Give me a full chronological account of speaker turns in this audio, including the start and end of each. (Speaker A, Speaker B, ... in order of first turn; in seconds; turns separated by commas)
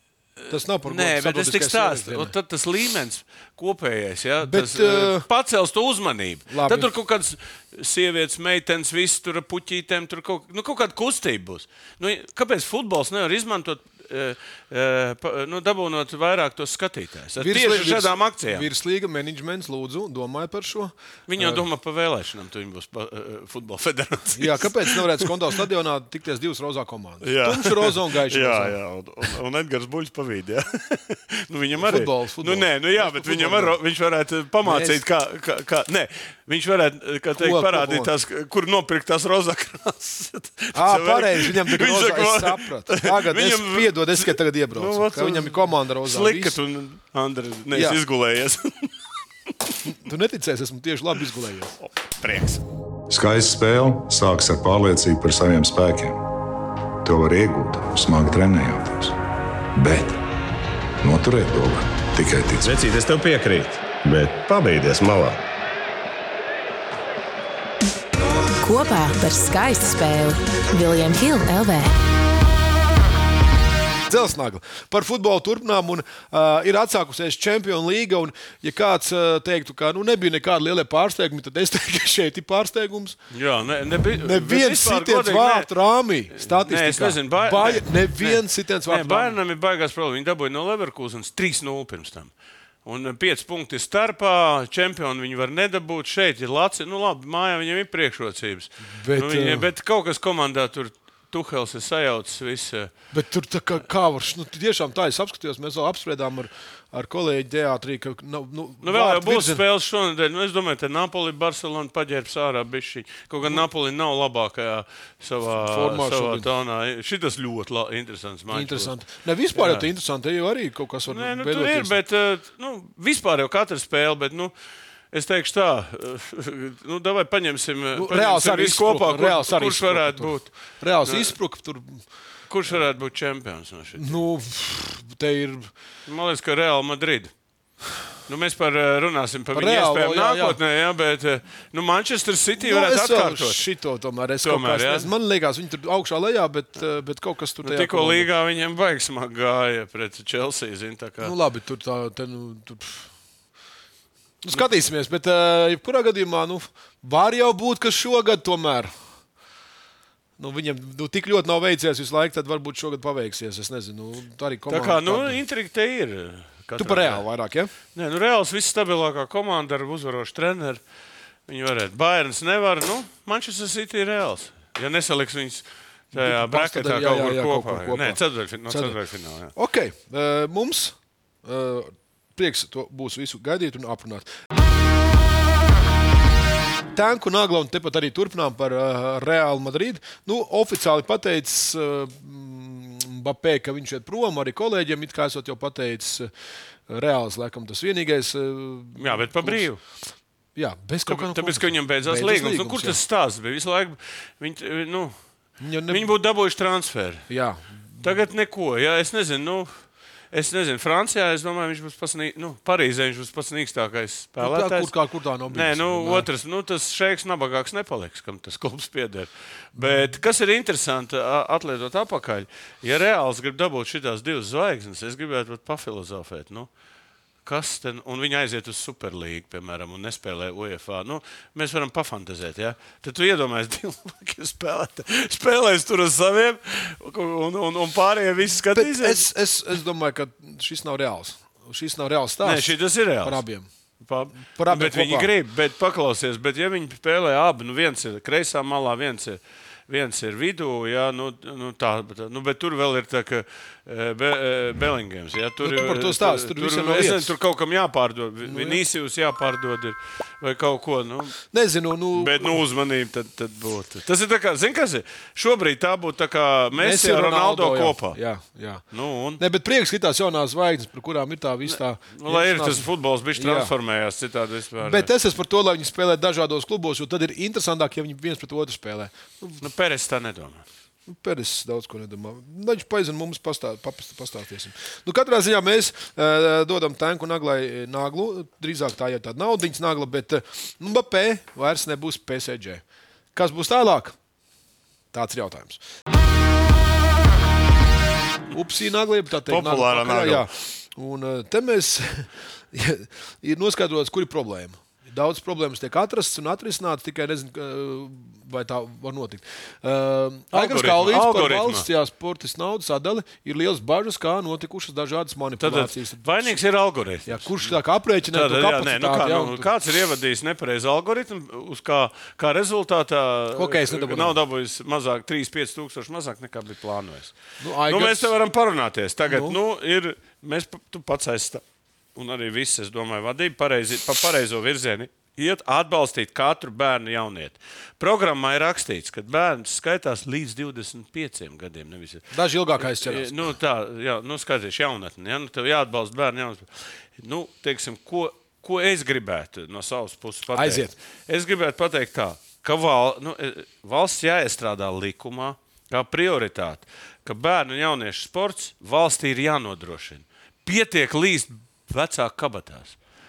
Speaker A: 0.5-18.7, Speaker B: 0.5-2.3, Speaker B: 4.4-5.3, Speaker B: 6.5-6.9, Speaker B: 17.4-21.6, Speaker A: 21.3-25.3, Speaker B: 24.3-28.8, Speaker A: 27.2-48.9, Speaker B: 31.8-33.8, Speaker B: 34.6-35.0, Speaker B: 37.3-38.1, Speaker B: 40.7-46.5, Speaker B: 47.7-48.0, Speaker B: 49.8-51.8, Speaker A: 51.8-52.6, Speaker C: 53.1-56.2, Speaker C: 57.0-59.2, Speaker C: 59.7-60.2, Speaker C: 61.0-62.8, Speaker D: 62.6-65.4, Speaker E: 68.6-71.9, Speaker B: 74.1-83.2, Speaker A: 83.3-85.7, Speaker B: 84.1-89.4, Speaker A: 86.3-92.3, Speaker A: 92.8-102.9, Speaker B: 98.9-99.7, Speaker B: 103.1-109.6, Speaker A: 108.8-118.9, Speaker B: 115.4-116.5, Speaker B: 118.5-122.0, Speaker A: 119.5-119.8, Speaker A: 121.1-124.5, Speaker A: 125.1-131.3, Speaker B: 127.9-132.1, Speaker A: 132.5-134.1, Speaker B: 134.0-135.7, Speaker A: 136.1-137.3, Speaker A: 138.2-143.6, Speaker B: 139.5-140.6, Speaker B: 142.6-148.3, Speaker A: 144.4-145.1, Speaker A: 147.6-151.3, Speaker B: 151.2-153.1, Speaker B: 154.4-158.9, Speaker B: 160.4-165.4, Speaker A: 164.7-167.2, Speaker B: 166.8-167.7, Speaker A: 167.9-170.8, Speaker A: 171.5-179.5, Speaker B: 176.1-179.0, Speaker B: 179.5-184.3, Speaker B: 186.9-196.3, Speaker B: 196.9-199.7, Speaker A: 199.0-199.8, Speaker B: 200.6-203.0, Speaker A: 201.1-205.2, Speaker B: 205.6-206.1, Speaker A: 205.9-207.3, Speaker B: 207.3-208.2, Speaker A: 208.0-214.9, Speaker B: 214.4-216.3, Speaker A: 215.5-226.7, Speaker B: 219.7-220.2, Speaker A: 227.4-239.3, Speaker B: 238.7-243.7, Speaker A: 242.4-243.4, Speaker A: 244.0-261.4, Speaker B: 244.4-245.3, Speaker B: 255.6-257.3, Speaker B: 258.4-258.8, Speaker B: 261.5-262.6, Speaker A: 262.1-268.2, Speaker B: 266.7-268.8, Speaker A: 268.9-269.4, Speaker B: 269.4-273.7, Speaker A: 271.6-275.1, Speaker B: 274.8-279.6, Speaker A: 279.6-280.6, Speaker B: 281.1-292.8, Speaker B: 293.3-294.1, Speaker B: 295.1-295.8, Speaker B: 298.5-316.6, Speaker A: 299.4-300.5, Speaker A: 310.5-311.9, Speaker A: 315.6-317.8, Speaker B: 317.2-319.7, Speaker A: 318.3-331.6, Speaker B: 323.5-324.4, Speaker B: 327.6-328.3, Speaker B: 329.3-329.6, Speaker A: 332.1-363.0, Speaker B: 342.3-343.3, Speaker B: 350.5-350.9